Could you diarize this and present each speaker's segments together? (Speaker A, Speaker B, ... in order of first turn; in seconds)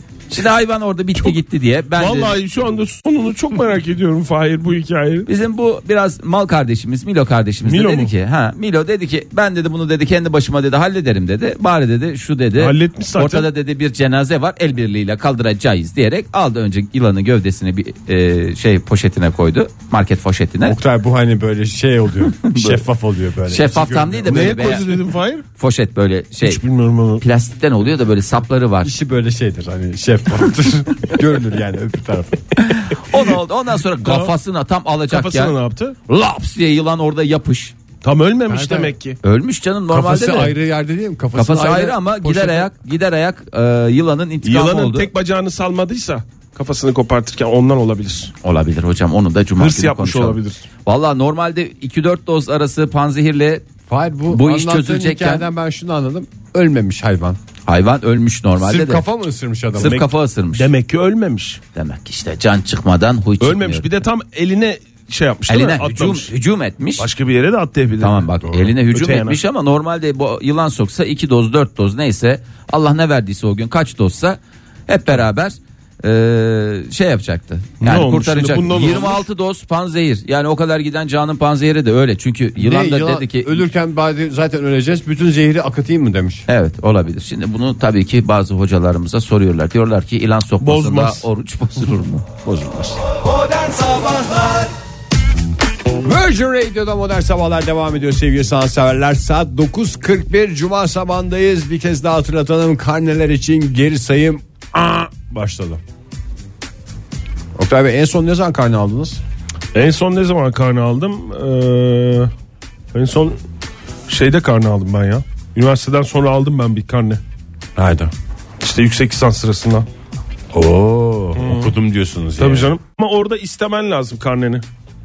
Speaker A: 0.3-2.4, 5.3-20.8, 22.4-22.8, 23.5-25.0, 25.6-26.6, 27.2-28.9, 32.6-35.5, 36.1-37.7, 39.2-40.5, 41.4-45.1, 48.4-53.7, 54.3-55.5, 57.7-59.0, 59.8-60.7, 61.8-63.9, 65.5-67.1, 68.0-83.6, 86.5-92.3
Speaker B: 2.0-5.3, 7.6-8.1, 12.6-13.5, 24.2-25.4, 26.4-27.2, 34.0-34.3, 35.1-36.0, 38.0-39.2, 44.4-48.3, 49.6-50.6, 59.8-61.6, 63.4-66.3, 67.0-68.3, 68.9-69.4, 77.8-79.2, 90.6-91.2, 109.7-112.3, 112.9-113.4, 114.1-117.2, 118.6-119.9, 121.4-121.7, 122.4-124.6
Speaker C: 20.6-24.6, 28.8-32.5, 38.5-38.9, 39.9-42.7, 53.9-57.4, 58.6-60.0, 82.6-86.5, 92.5-93.0, 96.0-105.8, 107.6-109.2, 117.8-118.1, 120.5-122.7